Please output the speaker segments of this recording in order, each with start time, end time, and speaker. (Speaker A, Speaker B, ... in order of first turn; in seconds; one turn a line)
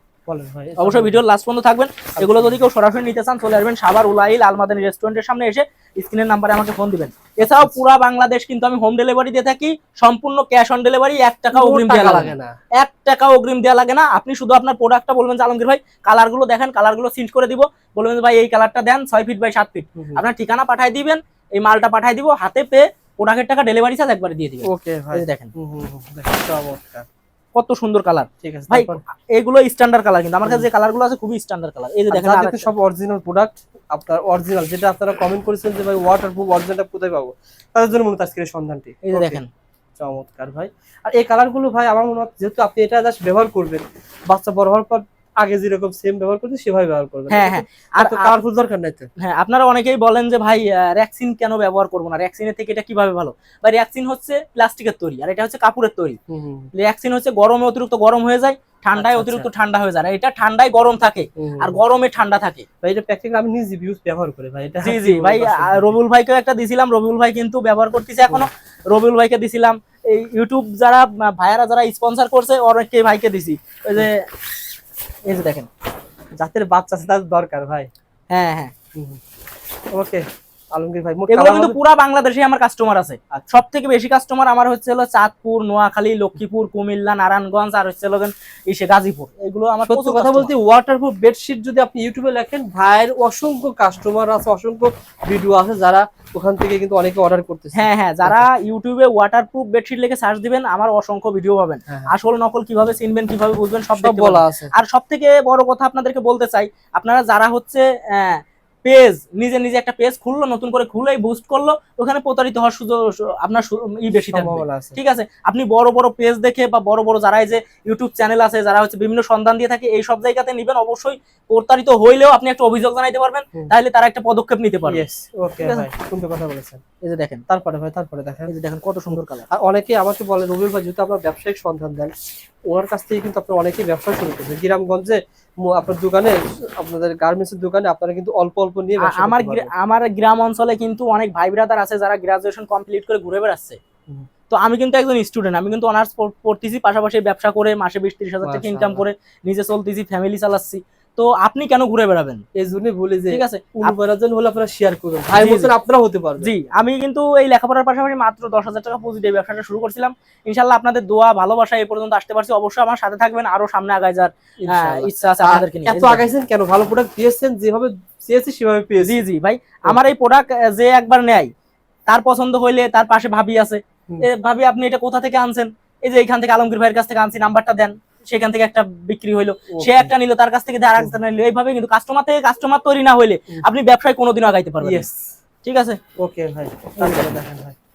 Speaker A: 0.3-1.2
Speaker B: 0.8-25.5
Speaker A: 2.2-2.6
Speaker A: 7.4-7.8
Speaker A: 11.5-12.6
Speaker A: 20.0-20.2
Speaker A: 24.6-27.1
Speaker B: 27.6-32.7
Speaker A: 28.4-29.0
Speaker A: 32.1-39.4
Speaker B: 39.0-39.5
Speaker A: 40.0-49.1
Speaker B: 47.3-48.3
Speaker B: 49.2-56.2
Speaker A: 56.3-56.7
Speaker B: 56.7-62.7
Speaker A: 59.0-59.5
Speaker A: 61.4-61.8
Speaker A: 62.8-65.9
Speaker B: 64.8-74.3
Speaker B: 75.3-75.7
Speaker A: 76.3-77.9
Speaker B: 78.3-78.7
Speaker A: 79.0-79.2
Speaker A: 79.9-81.8
Speaker B: 81.3-90.5
Speaker A: 89.9-98.5
Speaker B: 97.7-125.0
Speaker A: 104.0-104.7
Speaker A: 114.1-115.0
Speaker A: 124.9-126.8
Speaker B: 127.0-127.4
Speaker A: 127.5-128.5
Speaker B: 128.5-129.5
Speaker A: 129.1-132.1
Speaker A: 132.7-139.7
Speaker B: 139.0-143.8
Speaker B: 144.5-152.4
Speaker A: 148.4-149.0
Speaker A: 152.6-156.5
Speaker B: 153.3-153.9
Speaker B: 155.4-155.7
Speaker B: 156.4-166.2
Speaker A: 164.6-169.2
Speaker B: 169.0-171.5
Speaker B: 172.1-185.1
Speaker A: 179.7-180.1
Speaker A: 184.8-185.3
Speaker B: 185.6-186.0
Speaker A: 186.2-187.8
Speaker B: 187.0-187.3